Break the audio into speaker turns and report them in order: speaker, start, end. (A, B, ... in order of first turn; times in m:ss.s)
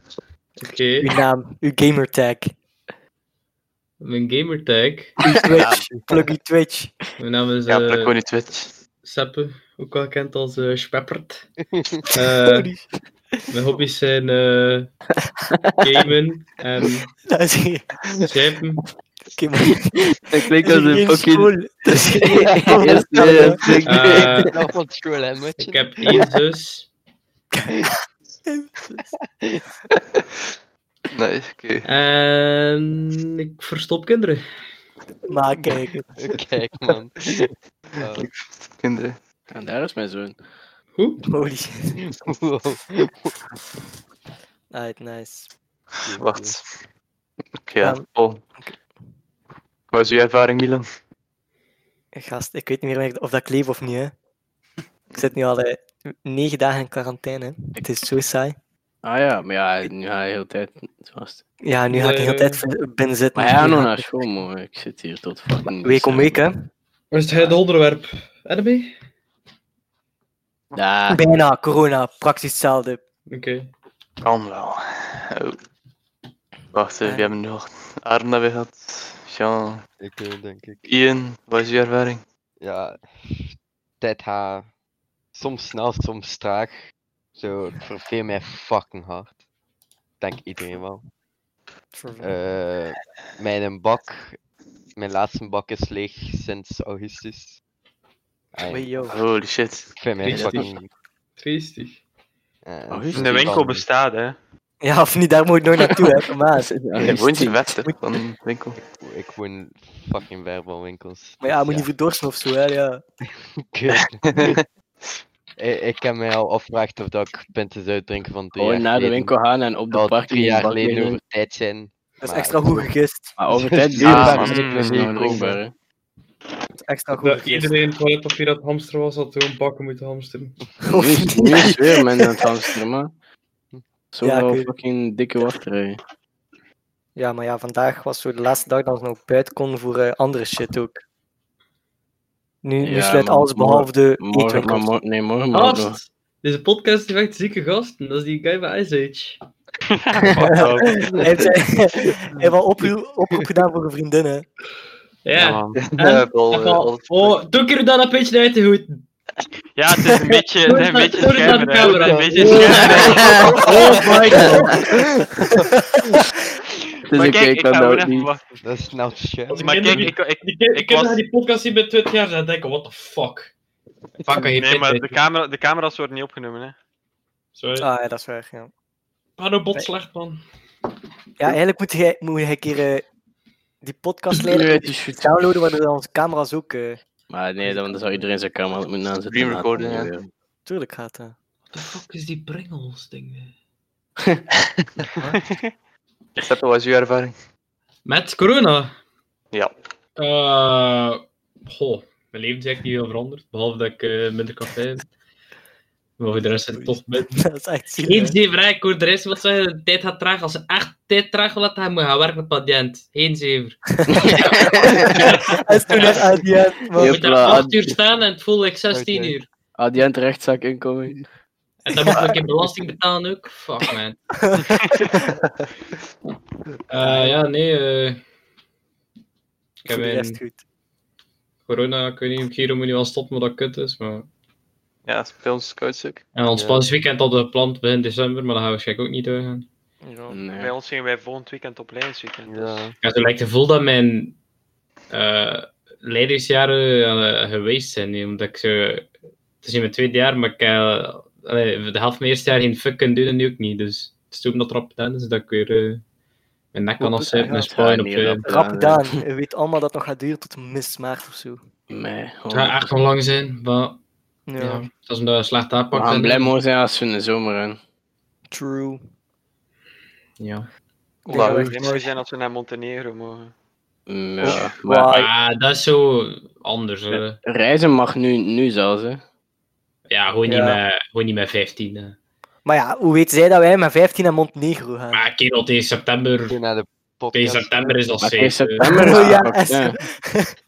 0:00.6-0:01.1 A
0:01.0-0:02.5 B
0:04.0-0:05.2 A
0:05.2-0:06.9 B
0:07.2-0:08.2 A
0:07.7-0:08.7 C
0:09.0-0:11.5 A
0:11.7-0:12.0 D
0:12.1-0:12.7 A
0:12.4-0:12.9 B
0:13.5-0:14.9 A
0:15.8-0:17.1 A
0:17.3-0:17.9 B
0:18.3-0:18.8 A
0:19.4-0:23.7 B
0:20.3-0:24.5 E
0:22.4-0:26.3 D
0:23.8-0:24.5 A
0:25.6-0:26.9 A
0:28.5-0:29.1 B
0:31.1-0:31.9 C
0:31.8-0:34.4 A
0:35.3-0:36.0 B
0:36.2-0:37.5 D
0:38.0-0:38.3 D
0:38.0-0:39.2 C
0:39.5-0:40.4 E
0:41.0-0:41.2 A
0:41.3-0:42.0 B
0:42.0-0:43.3 D
0:44.7-0:45.5 B
0:46.0-0:46.7 C
0:46.1-0:46.6 D
0:47.6-0:48.4 C
0:49.9-0:50.9 C
0:52.1-0:54.1 B
0:55.1-0:58.6 B
0:59.0-1:01.4 E
1:01.6-1:04.1 B
1:01.9-1:02.6 A
1:03.4-1:06.4 E
1:05.8-1:06.7 B
1:07.1-1:08.9 A
1:10.7-1:11.2 E
1:11.1-1:13.0 B
1:13.3-1:13.7 A
1:14.2-1:15.6 C
1:16.7-1:19.8 C
1:17.0-1:17.3 B
1:20.0-1:20.8 D
1:20.8-1:22.2 C
1:22.6-1:24.7 D
1:25.4-1:26.8 D
1:27.4-1:29.3 D
1:30.2-1:31.1 D
1:31.9-1:32.3 B
1:32.2-1:34.4 D
1:35.0-1:37.6 D
1:38.5-1:38.9 D
1:38.7-1:39.2 B
1:39.0-1:40.3 C
1:40.0-1:40.9 D
1:40.2-1:40.7 A
1:40.3-1:40.7 E
1:41.4-1:42.0 A
1:42.6-1:43.9 D
1:42.9-1:43.6 E
1:43.1-1:44.4 F
1:44.8-1:46.7 B
1:46.6-1:47.6 E
1:47.0-1:48.8 C
1:49.0-1:51.9 D
1:51.4-1:53.0 B
1:53.6-1:54.6 D
1:53.9-1:54.7 C
1:55.6-1:59.3 D
1:58.6-2:01.2 E
1:59.9-2:02.9 D
2:02.2-2:03.4 B
2:03.4-2:05.7 E
2:03.6-2:05.6 D
2:04.0-2:04.8 C
2:04.3-2:05.2 F
2:06.8-2:07.8 B
2:07.2-2:10.6 A
2:10.9-2:11.9 B
2:10.9-2:13.1 E
2:14.1-2:16.0 E
2:14.2-2:14.7 B
2:17.2-2:21.0 B
2:22.6-2:24.9 B
2:22.8-2:26.0 E
2:25.5-2:29.4 A
2:29.9-2:31.4 F
2:30.5-2:34.5 B
2:31.0-2:31.3 D
2:35.2-2:39.0 A
2:35.4-2:35.8 F
2:35.8-2:37.4 C
2:39.8-2:44.1 F
2:40.6-2:44.8 A
2:41.8-2:44.2 D
2:43.0-2:43.5 E
2:47.1-2:48.3 E
2:47.1-2:48.4 F
2:48.6-2:49.8 D
2:49.5-2:53.5 A
2:49.5-2:51.2 F
2:54.2-2:55.2 A
2:54.5-2:56.8 F
2:57.6-2:57.9 A
2:57.8-2:58.7 B
2:59.4-3:00.4 A
3:01.4-3:03.0 B
3:03.8-3:07.0 B
3:04.4-3:05.3 E
3:07.3-3:10.3 E
3:09.3-3:10.1 C
3:10.7-3:11.4 B
3:11.7-3:13.5 A
3:15.4-3:15.7 F
3:16.4-3:17.4 C
3:18.0-3:18.9 A
3:20.2-3:25.1 A
3:26.2-3:27.4 A
3:26.7-3:28.4 B
3:28.1-3:33.8 A
3:34.0-3:34.3 B
3:34.1-3:35.2 E
3:34.8-3:37.2 B
3:35.1-3:36.2 A
3:37.0-3:37.9 E
3:37.0-3:39.5 A
3:38.9-3:39.4 D
3:39.8-3:41.2 E
3:41.8-3:44.2 A
3:42.0-3:42.4 B
3:44.4-3:45.2 B
3:46.9-3:48.2 A
3:47.0-3:47.4 B
3:49.8-3:50.4 A
3:49.9-3:50.6 B
3:51.7-3:54.3 A
3:55.0-3:56.2 C
3:56.4-3:59.7 A
3:56.5-3:56.9 D
4:00.0-4:00.4 B
4:00.3-4:00.7 E
4:00.6-4:02.9 F
4:02.5-4:03.0 D
4:03.0-4:04.4 A
4:05.1-4:09.1 A
4:09.6-4:16.0 A
4:16.7-4:18.5 A
4:17.0-4:17.7 B
4:17.5-4:19.2 E
4:18.4-4:21.6 B
4:21.9-4:22.8 E
4:22.5-4:24.0 A
4:24.5-4:24.9 B
4:24.6-4:26.5 A
4:25.9-4:27.8 E
4:28.5-4:29.0 B
4:30.4-4:30.7 A
4:31.3-4:32.1 B
4:31.3-4:33.5 F
4:31.4-4:31.7 C
4:34.1-4:35.1 E
4:34.4-4:35.3 B
4:34.5-4:37.4 A
4:37.4-4:39.2 E
4:40.1-4:42.2 A
4:40.5-4:40.8 B
4:42.6-4:45.2 B
4:45.1-4:46.6 A
4:46.5-4:48.1 D
4:47.3-4:48.9 A
4:48.2-4:50.0 E
4:48.8-4:50.5 B